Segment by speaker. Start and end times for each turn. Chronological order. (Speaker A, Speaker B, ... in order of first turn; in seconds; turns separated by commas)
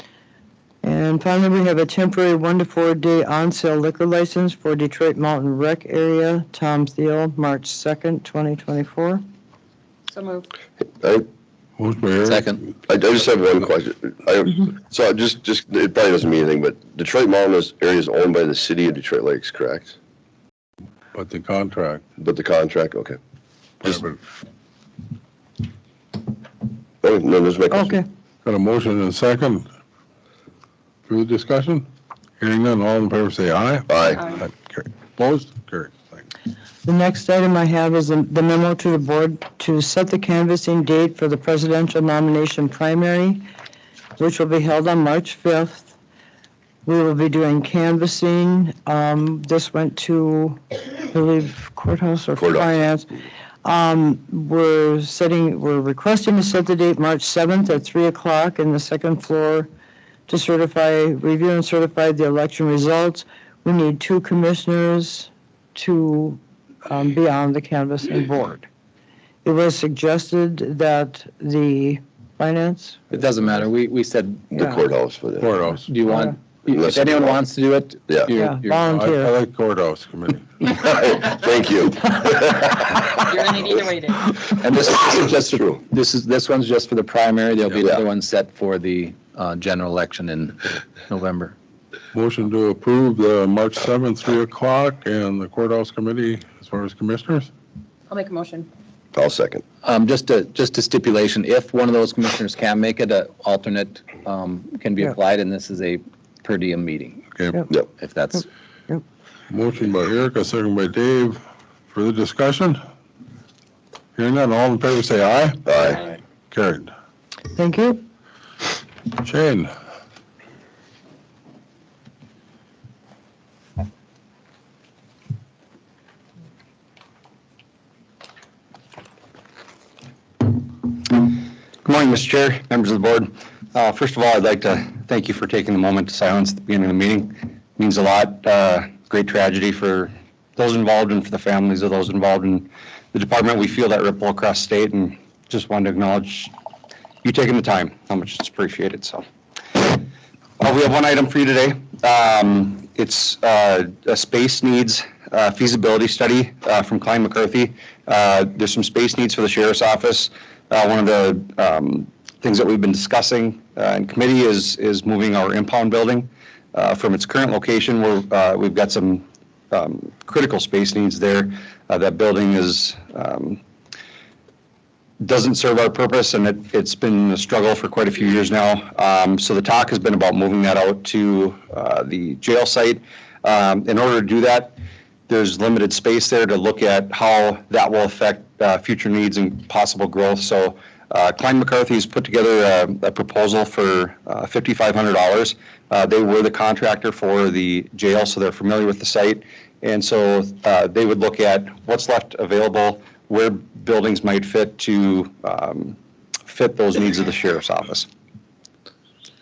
Speaker A: 0.8-9.2, Speaker B: 10.1-10.5, Speaker C: 11.0-11.3, Speaker D: 11.8-12.7, Speaker E: 12.2-12.6, Speaker C: 12.9-19.9, Speaker D: 21.1-22.0, Speaker C: 22.2-23.2, Speaker D: 23.8-24.2, Speaker C: 27.0-28.0, Speaker A: 27.7-28.0, Speaker D: 28.4-29.6, Speaker D: 31.1-31.8, Speaker D: 32.4-36.2, Speaker C: 33.9-34.4, Speaker A: 36.8-43.4, Speaker A: 44.2-45.9, Speaker A: 46.8-53.1, Speaker C: 52.4-52.7, Speaker A: 53.6-59.7, Speaker A: 60.3-68.7, Speaker A: 69.4-73.0, Speaker E: 73.1-74.5, Speaker C: 74.5-75.6, Speaker D: 75.4-75.9, Speaker E: 75.9-78.8, Speaker C: 76.7-77.5, Speaker C: 78.1-78.4, Speaker A: 78.3-79.3, Speaker D: 78.7-80.7, Speaker C: 80.7-83.1, Speaker B: 83.3-84.2, Speaker E: 84.4-91.5, Speaker C: 85.0-85.8, Speaker D: 92.1-97.5, Speaker B: 98.1-98.7, Speaker C: 99.1-99.6, Speaker E: 99.8-107.2, Speaker D: 107.3-107.7, Speaker E: 108.0-108.5, Speaker D: 109.5-112.8, Speaker D: 114.2-115.7, Speaker C: 115.7-116.0, Speaker D: 116.5-116.9, Speaker A: 117.5-118.0, Speaker D: 119.1-119.7, Speaker F: 130.8-146.5, Speaker F: 147.2-150.1, Speaker F: 150.6-173.6, Speaker F: 175.2-184.8, Speaker F: 185.3-205.9, Speaker F: 206.5-208.1